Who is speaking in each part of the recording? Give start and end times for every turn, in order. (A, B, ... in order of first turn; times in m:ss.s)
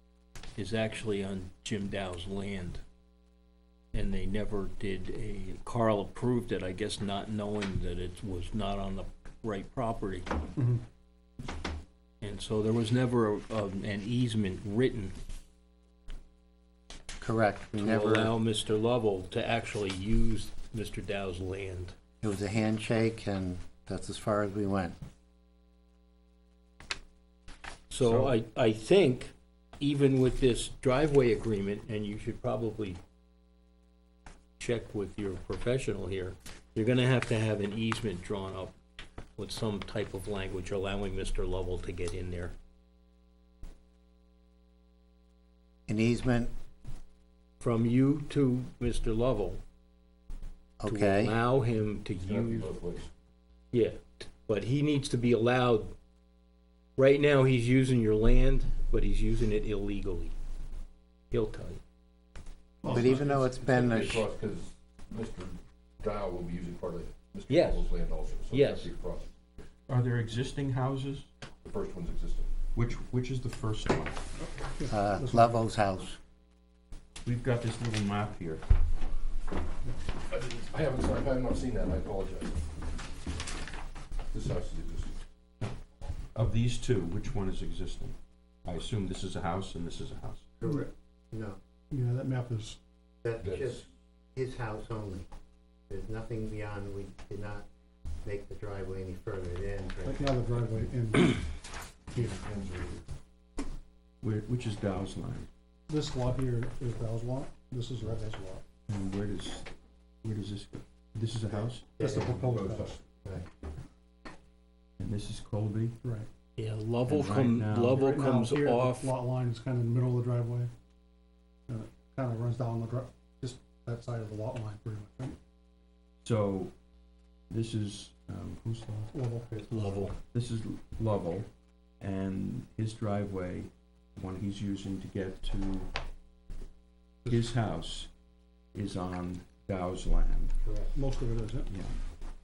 0:00.6-0:02.8 A
0:03.9-0:10.3 A
0:10.6-0:10.8 B
0:12.2-0:15.1 A
0:17.2-0:18.3 C
0:17.8-0:21.9 A
0:22.2-0:25.0 C
0:27.9-0:33.0 A
0:34.6-0:38.8 A
0:39.4-0:42.5 A
0:45.9-0:46.5 C
0:47.6-0:49.6 A
0:50.8-0:51.3 C
0:50.8-0:52.7 A
0:52.2-0:53.1 D
0:53.7-0:55.9 A
0:57.0-1:00.3 A
1:01.3-1:01.8 A
1:02.8-1:03.5 B
1:02.9-1:04.3 C
1:03.0-1:09.3 D
1:07.5-1:07.9 A
1:08.5-1:08.9 A
1:09.9-1:11.3 E
1:11.6-1:12.5 D
1:12.7-1:14.2 E
1:14.4-1:15.6 B
1:14.9-1:16.2 C
1:17.2-1:18.6 E
1:20.3-1:22.6 D
1:24.3-1:25.1 D
1:26.3-1:30.5 E
1:30.6-1:31.6 C
1:30.6-1:30.9 B
1:31.9-1:32.8 B
1:33.2-1:35.3 C
1:33.4-1:33.8 D
1:35.9-1:37.6 C
1:38.2-1:40.4 C
1:40.0-1:41.4 B
1:42.1-1:43.0 D
1:44.2-1:45.5 E
1:45.9-1:48.6 B
1:48.9-1:49.7 E
1:50.2-1:52.1 E
1:51.5-1:52.4 C
1:52.0-1:53.0 B
1:52.3-1:53.0 D
1:55.0-1:56.0 E
1:56.6-1:59.0 A
1:57.0-1:58.1 E
1:57.9-2:00.7 B
2:01.7-2:05.4 B
2:06.2-2:06.7 E
2:07.5-2:09.1 E
2:09.1-2:10.1 B
2:09.7-2:10.2 A
2:10.2-2:11.5 E
2:12.0-2:15.9 E
2:17.3-2:18.1 E
2:18.7-2:20.5 E
2:20.6-2:20.9 C
2:20.9-2:21.7 B
2:21.7-2:22.0 E